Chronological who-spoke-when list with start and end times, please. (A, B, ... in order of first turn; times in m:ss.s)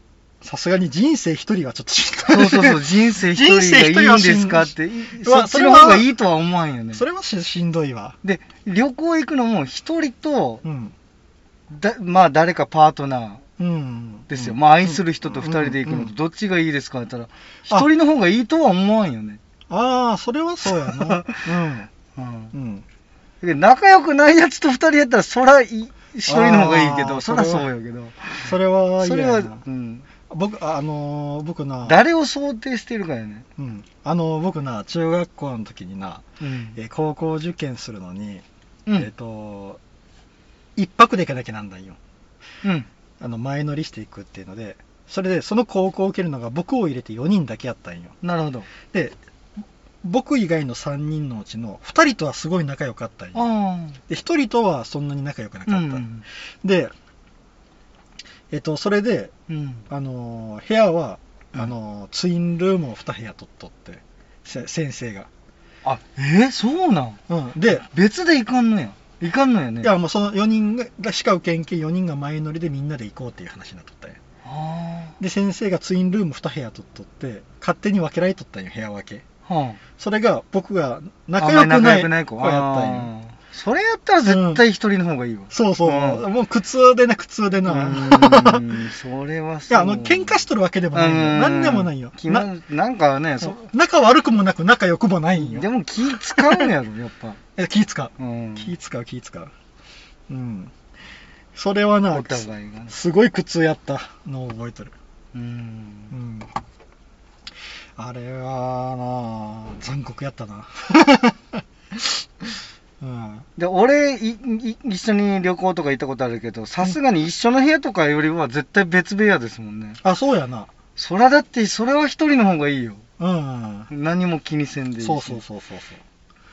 0:00.4-0:06.1 A
0:02.3-0:07.0 B
0:06.9-0:08.2 A
0:08.2-0:10.6 B
0:10.6-0:10.9 A
0:11.7-0:13.4 B
0:13.6-0:16.1 A
0:14.3-0:19.4 B
0:19.7-0:21.9 A
0:20.7-0:21.5 B
0:22.1-0:22.5 B
0:22.5-0:22.8 A
0:23.4-0:30.1 B
0:26.3-0:27.7 A
0:28.4-0:29.6 A
0:30.3-0:32.0 A
0:31.8-0:33.5 B
0:33.6-0:38.4 A
0:36.4-0:36.8 B
0:39.0-0:39.8 A
0:40.8-0:42.0 A
0:42.6-0:42.9 B
0:43.2-0:48.2 A
0:48.2-0:48.7 B
0:48.9-0:53.4 A
0:53.3-0:54.0 B
0:54.1-0:56.9 A
0:55.7-0:56.2 B
0:58.5-0:59.3 A
0:59.5-0:59.9 B
0:59.9-1:05.3 A
1:05.8-1:07.2 B
1:07.3-1:07.8 A
1:07.7-1:09.9 B
1:09.8-1:14.2 A
1:14.4-1:15.2 B
1:15.2-1:19.2 A
1:19.4-1:19.8 B
1:20.0-1:23.1 A
1:21.4-1:26.2 B
1:24.2-1:24.6 A
1:25.5-1:28.8 A
1:27.6-1:33.7 B
1:29.7-1:32.5 A
1:33.4-1:36.7 A
1:35.3-1:37.4 B
1:37.6-1:39.5 A
1:38.2-1:38.7 B
1:40.3-1:40.7 A
1:41.5-1:44.9 A
1:42.1-1:43.0 B
1:45.3-1:46.1 B
1:46.1-1:46.5 A
1:48.0-1:53.5 A
1:53.6-2:00.0 B
2:00.0-2:00.7 A
2:01.0-2:03.0 B
2:03.2-2:03.9 A
2:03.9-2:05.4 B
2:05.0-2:06.0 A